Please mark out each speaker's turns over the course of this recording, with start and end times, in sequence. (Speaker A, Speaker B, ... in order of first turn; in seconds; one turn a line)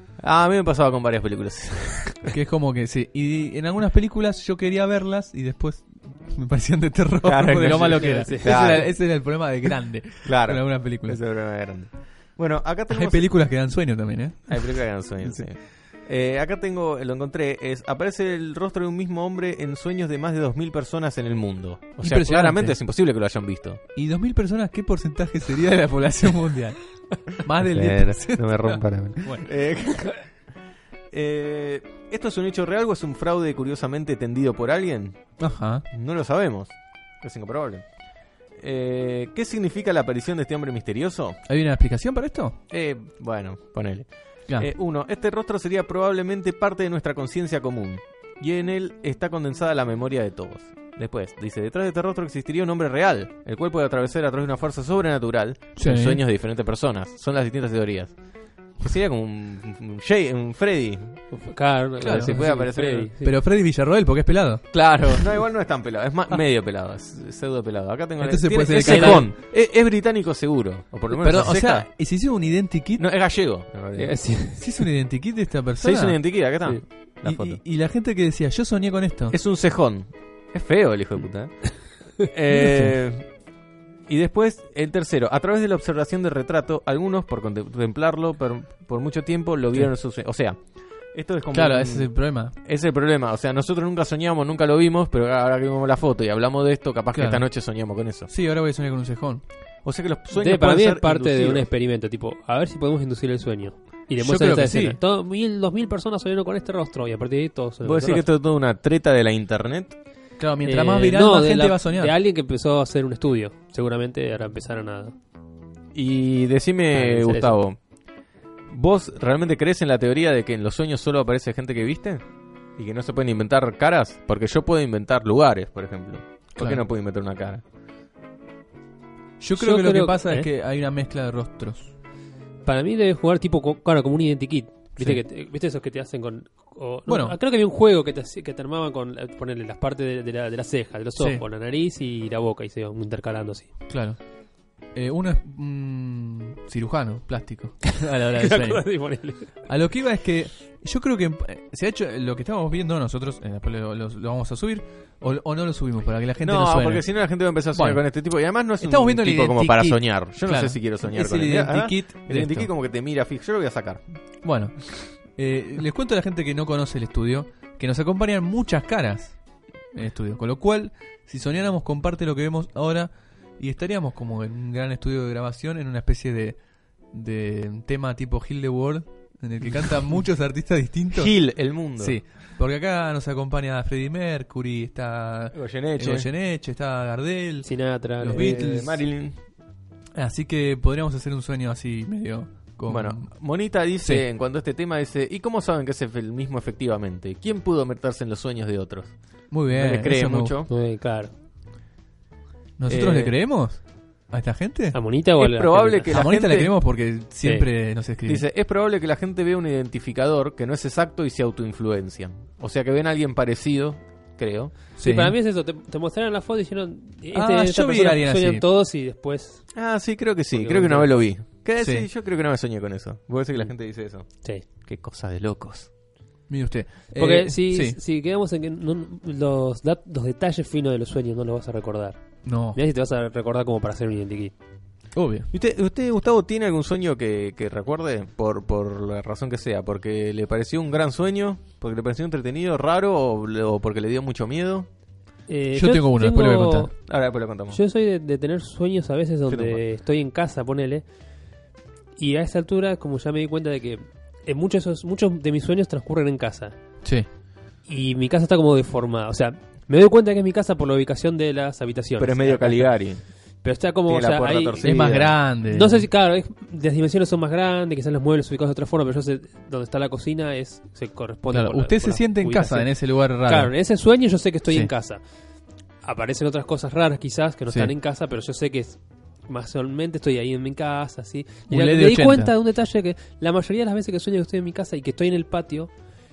Speaker A: 0.2-2.4
Speaker B: 2.3-11.2
Speaker A: 7.2-8.9
Speaker C: 7.7-8.6
Speaker A: 10.2-13.3
Speaker B: 12.9-15.4
Speaker A: 14.5-23.8
Speaker B: 22.0-22.8
Speaker B: 23.9-29.5
Speaker A: 27.6-30.3
Speaker A: 31.1-35.3
Speaker B: 35.4-35.8
Speaker A: 35.9-37.9
Speaker A: 38.5-41.4
Speaker B: 41.5-42.6
Speaker A: 42.7-61.3
Speaker B: 55.8-56.2
Speaker C: 61.3-63.3
Speaker B: 62.0-65.2
Speaker A: 62.0-63.1
Speaker A: 64.7-71.9
Speaker B: 68.2-69.3
Speaker C: 68.7-69.2
Speaker B: 71.1-73.0
Speaker A: 73.0-74.1
Speaker C: 74.0-74.7
Speaker B: 74.3-76.4
Speaker A: 75.8-77.6
Speaker B: 77.2-79.3
Speaker A: 79.3-83.3
Speaker B: 82.5-83.0
Speaker A: 84.1-98.3
Speaker B: 91.5-92.5
Speaker B: 97.1-97.5
Speaker B: 98.3-99.4
Speaker A: 99.8-101.7
Speaker C: 100.3-108.3
Speaker B: 104.2-105.0
Speaker A: 107.8-110.0
Speaker B: 110.4-112.1
Speaker C: 110.6-115.1
Speaker A: 115.9-117.8
Speaker C: 116.9-117.6
Speaker A: 118.7-122.2
Speaker A: 122.8-127.6
Speaker B: 129.4-131.9
Speaker C: 129.6-130.5
Speaker C: 132.6-143.7
Speaker B: 137.1-137.3
Speaker B: 141.2-141.4
Speaker B: 143.9-144.2
Speaker B: 144.9-148.9
Speaker C: 147.9-149.5
Speaker B: 149.7-158.1
Speaker A: 156.4-164.2
Speaker B: 158.8-162.7
Speaker B: 164.4-169.4
Speaker B: 169.9-176.6
Speaker B: 177.1-181.3
Speaker A: 181.1-182.2
Speaker B: 182.0-189.0
Speaker A: 185.5-186.3
Speaker C: 187.6-188.9
Speaker A: 188.3-189.4
Speaker B: 190.2-193.4
Speaker A: 192.9-199.1
Speaker B: 199.5-200.6
Speaker A: 199.7-200.7
Speaker C: 200.7-201.3
Speaker B: 202.8-205.0
Speaker A: 202.9-203.3
Speaker C: 204.9-206.1
Speaker A: 205.4-206.7
Speaker B: 206.1-208.4
Speaker C: 207.4-207.7
Speaker A: 208.3-214.7
Speaker B: 215.0-215.3
Speaker C: 215.0-219.6
Speaker B: 217.3-218.7
Speaker A: 219.7-224.3
Speaker C: 220.5-221.3
Speaker B: 221.8-222.1
Speaker A: 224.8-225.9
Speaker B: 226.5-228.0
Speaker C: 227.1-234.5
Speaker B: 232.4-232.8
Speaker B: 235.1-235.5
Speaker A: 235.5-244.9
Speaker C: 245.5-246.9
Speaker B: 245.7-246.9
Speaker A: 247.0-247.8
Speaker C: 247.7-251.1
Speaker A: 249.5-249.8
Speaker C: 252.2-256.7
Speaker C: 257.9-262.9
Speaker A: 262.2-263.2
Speaker C: 263.6-265.0
Speaker A: 264.1-265.3
Speaker B: 264.8-266.1
Speaker C: 265.6-275.2
Speaker B: 271.5-273.7
Speaker C: 276.0-285.9
Speaker B: 281.7-282.5